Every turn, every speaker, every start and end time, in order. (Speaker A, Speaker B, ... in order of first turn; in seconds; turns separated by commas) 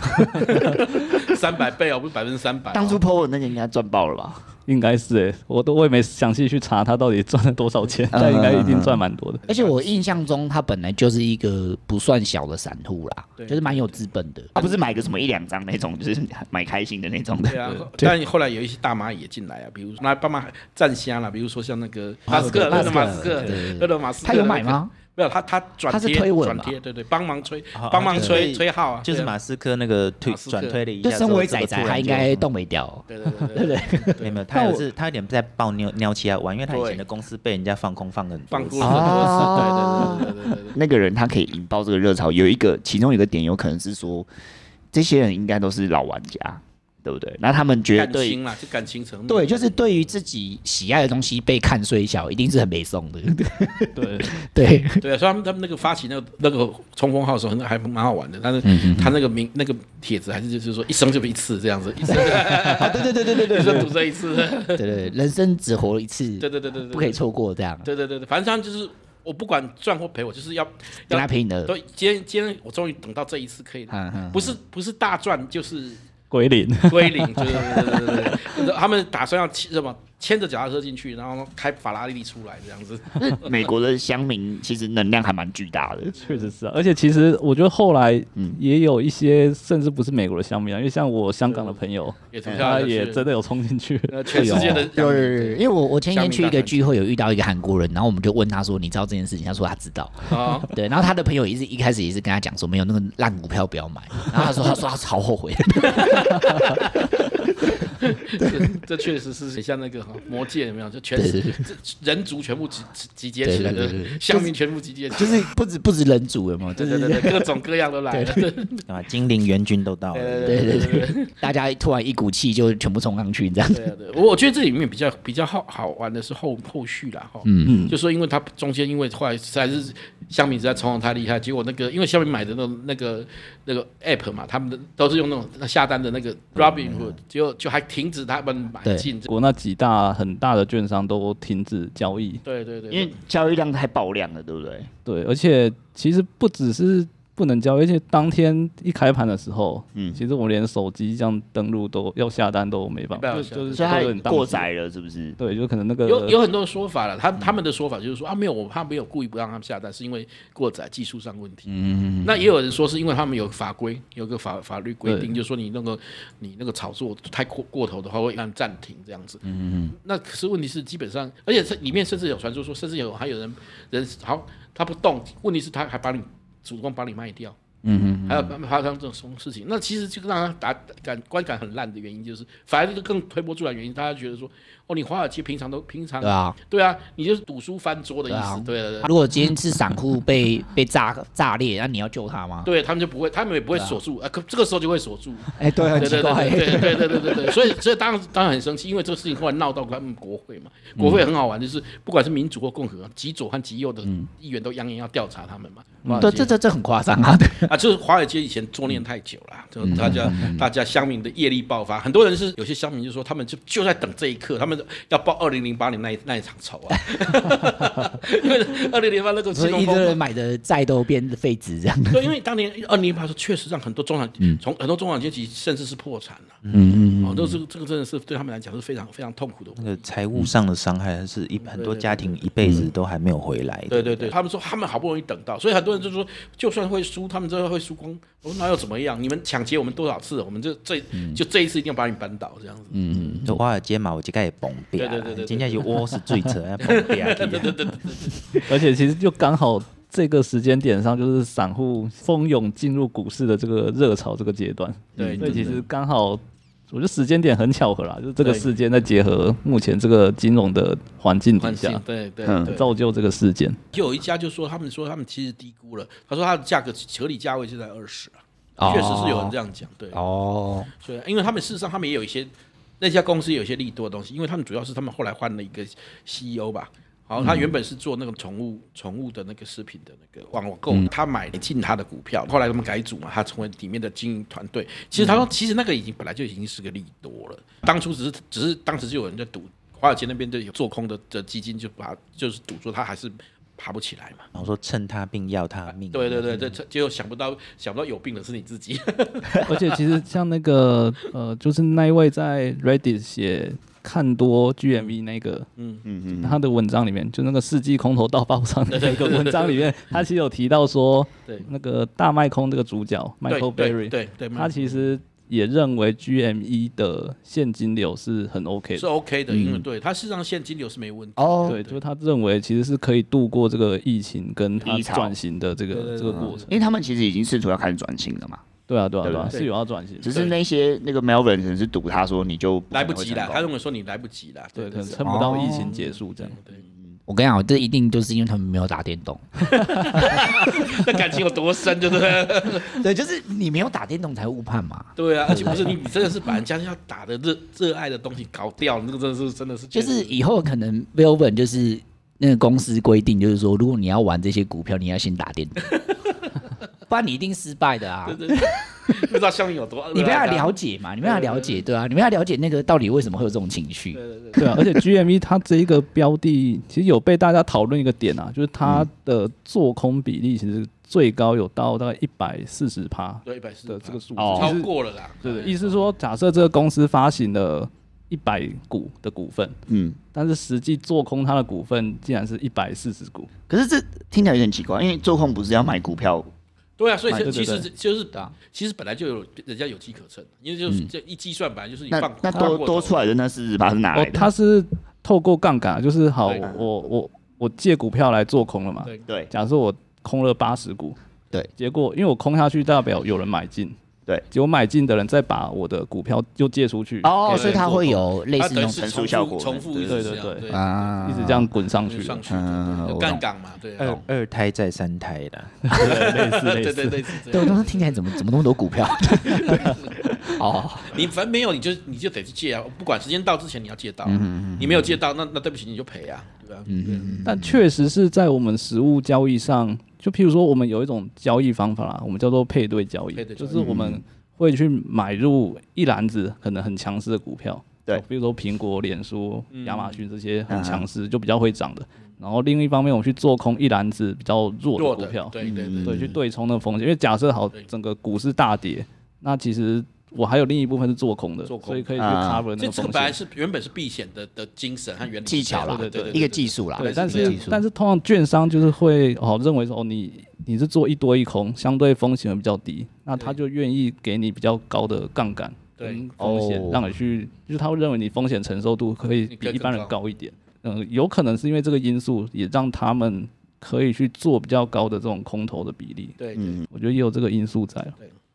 Speaker A: 0.4-3.0, Speaker B: 2.7-4.4, Speaker C: 4.7-9.4, Speaker B: 8.2-8.9, Speaker D: 8.2-8.8, Speaker A: 9.4-10.2, Speaker D: 9.5-14.7, Speaker A: 13.4-14.1, Speaker B: 14.6-17.3, Speaker D: 17.3-18.1, Speaker A: 17.5-29.3, Speaker E: 22.3-23.3, Speaker D: 22.3-24.9, Speaker D: 25.9-26.8, Speaker E: 27.7-32.4, Speaker A: 30.2-30.8, Speaker D: 31.0-34.9, Speaker A: 33.1-34.4, Speaker E: 34.2-39.6, Speaker A: 36.7-37.0, Speaker A: 38.5-40.8, Speaker D: 38.8-40.3, Speaker B: 40.8-44.2, Speaker B: 44.9-48.4, Speaker A: 47.9-49.8, Speaker D: 49.3-55.0, Speaker C: 54.0-54.5, Speaker A: 55.0-64.8, Speaker D: 58.6-59.2, Speaker D: 62.1-63.9, Speaker D: 64.7-67.9, Speaker A: 66.4-67.2, Speaker A: 67.8-76.0, Speaker D: 71.1-71.7, Speaker D: 73.9-74.6, Speaker C: 76.3-78.3, Speaker A: 76.8-83.7, Speaker B: 83.2-86.1, Speaker A: 86.2-86.5, Speaker C: 86.2-94.9, Speaker A: 91.5-91.8, Speaker A: 92.3-93.2, Speaker A: 94.1-96.9, Speaker D: 94.3-106.3, Speaker A: 100.3-100.7, Speaker A: 105.8-107.0, Speaker A: 108.0-115.5, Speaker D: 108.4-108.7, Speaker D: 111.1-111.6, Speaker D: 113.4-114.5, Speaker D: 115.1-117.5, Speaker A: 116.8-118.8, Speaker D: 118.1-118.5, Speaker E: 118.9-120.8, Speaker A: 120.1-121.3, Speaker D: 120.5-123.8, Speaker A: 123.7-139.3, Speaker D: 127.5-127.9, Speaker D: 136.8-137.1, Speaker C: 139.3-142.4, Speaker A: 142.4-143.2, Speaker B: 142.9-144.9, Speaker C: 145.1-154.7, Speaker A: 153.1-154.4, Speaker B: 153.8-155.3, Speaker C: 155.4-156.4, Speaker A: 156.1-161.7, Speaker D: 161.7-162.4, Speaker A: 162.2-169.4, Speaker C: 165.1-165.3, Speaker D: 169.4-169.9, Speaker A: 170.0-177.6, Speaker D: 177.8-178.6, Speaker A: 178.3-189.1, Speaker D: 186.2-186.6, Speaker D: 188.3-192.7, Speaker A: 192.6-206.5, Speaker D: 193.7-194.0, Speaker D: 195.6-197.5, Speaker D: 201.0-201.2, Speaker D: 206.1-207.7, Speaker A: 207.6-220.2, Speaker D: 209.8-210.7, Speaker D: 219.5-222.3, Speaker A: 222.1-226.6, Speaker E: 226.6-226.9, Speaker D: 226.7-227.6, Speaker A: 227.2-230.0, Speaker E: 229.8-234.3, Speaker A: 231.6-232.9, Speaker A: 233.9-243.4, Speaker D: 241.1-241.4, Speaker D: 242.9-243.6, Speaker E: 243.4-247.8, Speaker A: 245.0-245.9, Speaker A: 246.8-248.4, Speaker C: 248.7-262.0, Speaker A: 255.2-255.8, Speaker A: 258.4-258.7, Speaker A: 261.6-262.9, Speaker C: 262.7-263.8, Speaker A: 263.9-270.2, Speaker D: 268.8-269.6, Speaker D: 270.1-270.9, Speaker A: 271.0-294.5, Speaker D: 277.4-277.7, Speaker E: 294.5-296.6, Speaker A: 295.9-300.0, Speaker C: 299.6-305.7, Speaker A: 305.8-306.1, Speaker B: 306.1-306.5, Speaker C: 306.4-319.1, Speaker A: 308.9-309.8, Speaker A: 313.5-315.1, Speaker A: 319.0-322.0, Speaker D: 321.4-321.8, Speaker C: 321.7-326.7, Speaker B: 324.9-325.3, Speaker A: 325.9-326.8, Speaker B: 326.7-328.6, Speaker C: 328.9-330.3, Speaker A: 329.5-330.6, Speaker B: 330.2-333.7, Speaker A: 332.9-336.8, Speaker C: 334.8-336.6, Speaker D: 335.2-335.9, Speaker D: 337.3-339.4, Speaker A: 339.7-343.0, Speaker D: 342.9-346.0, Speaker A: 345.2-350.4, Speaker D: 349.9-355.9, Speaker D: 357.1-358.4, Speaker A: 358.2-361.8, Speaker D: 360.1-364.2, Speaker A: 364.1-364.7, Speaker C: 364.6-374.9, Speaker A: 373.5-376.1, Speaker C: 375.4-379.8, Speaker B: 379.9-380.2, Speaker C: 380.3-383.5, Speaker B: 383.7-386.5, Speaker A: 387.0-393.2, Speaker C: 387.4-387.9, Speaker B: 392.1-394.4, Speaker C: 394.1-401.2, Speaker C: 401.8-403.9, Speaker C: 404.5-407.3, Speaker D: 407.2-409.2, Speaker A: 407.4-411.1, Speaker B: 409.0-410.1, Speaker C: 410.1-410.7, Speaker D: 410.7-411.7, Speaker C: 411.2-412.4, Speaker A: 412.1-414.2, Speaker B: 412.5-413.2, Speaker E: 414.0-415.8, Speaker C: 415.9-417.2, Speaker A: 416.0-418.2, Speaker D: 417.5-420.0, Speaker A: 419.4-420.0, Speaker D: 420.5-421.2, Speaker A: 421.1-427.4, Speaker D: 424.2-425.2, Speaker D: 426.9-427.8, Speaker C: 427.4-453.4, Speaker A: 433.3-433.9, Speaker D: 433.7-434.2, Speaker A: 439.7-440.2, Speaker A: 445.0-446.3, Speaker A: 451.7-452.2, Speaker A: 452.8-457.6, Speaker D: 455.5-457.8, Speaker C: 455.8-456.4, Speaker C: 457.0-478.1, Speaker A: 466.0-466.3, Speaker D: 466.4-467.1, Speaker A: 469.5-470.1, Speaker A: 476.4-476.8